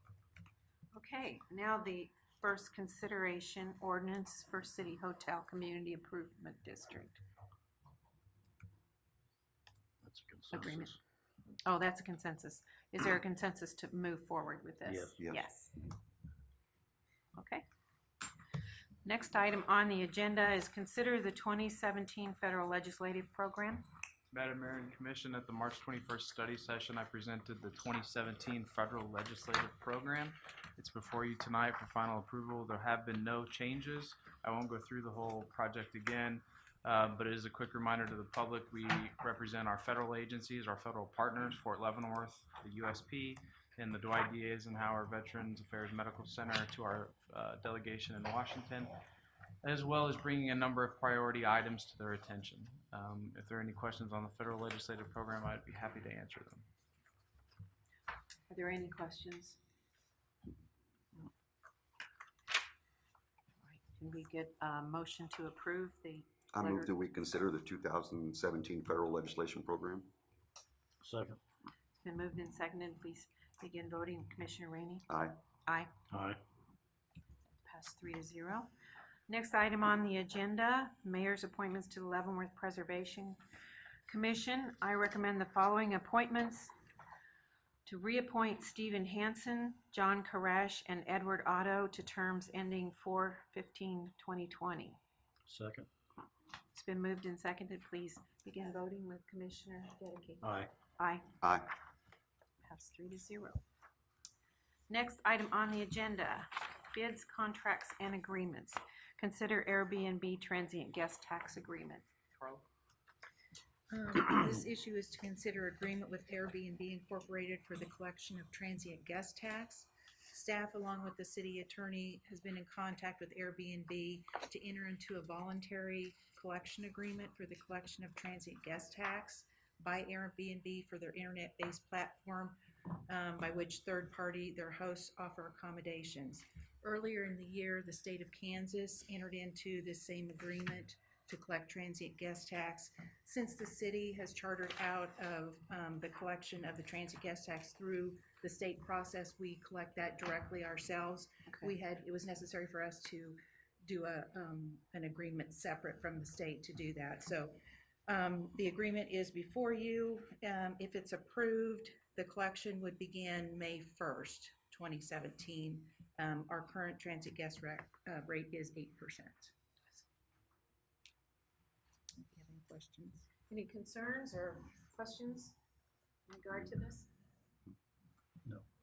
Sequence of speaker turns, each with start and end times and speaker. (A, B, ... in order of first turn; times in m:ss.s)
0:00.9-0:07.2 A
0:10.0-0:11.0 B
0:10.5-0:11.0 A
0:11.6-0:15.8 A
0:14.8-0:15.2 B
0:15.2-0:15.5 C
0:17.4-0:17.6 A
0:19.0-0:23.8 A
0:24.3-0:49.0 D
0:49.6-0:56.7 D
0:58.5-0:59.6 A
1:03.6-1:06.9 A
1:06.5-1:10.1 C
1:11.0-1:11.4 B
1:12.0-1:15.1 A
1:15.1-1:15.4 C
1:15.7-1:15.9 A
1:16.1-1:16.4 B
1:17.6-1:18.7 A
1:19.3-1:23.4 A
1:24.1-1:26.7 A
1:27.9-1:35.0 A
1:35.5-1:35.9 B
1:36.7-1:41.3 A
1:40.4-1:40.7 B
1:41.4-1:41.7 C
1:42.6-1:43.6 A
1:44.9-1:52.1 A
1:52.4-1:52.6 D
1:53.9-2:49.5 E
2:52.2-2:53.3 E
2:53.5-2:55.6 A
2:56.3-2:57.1 A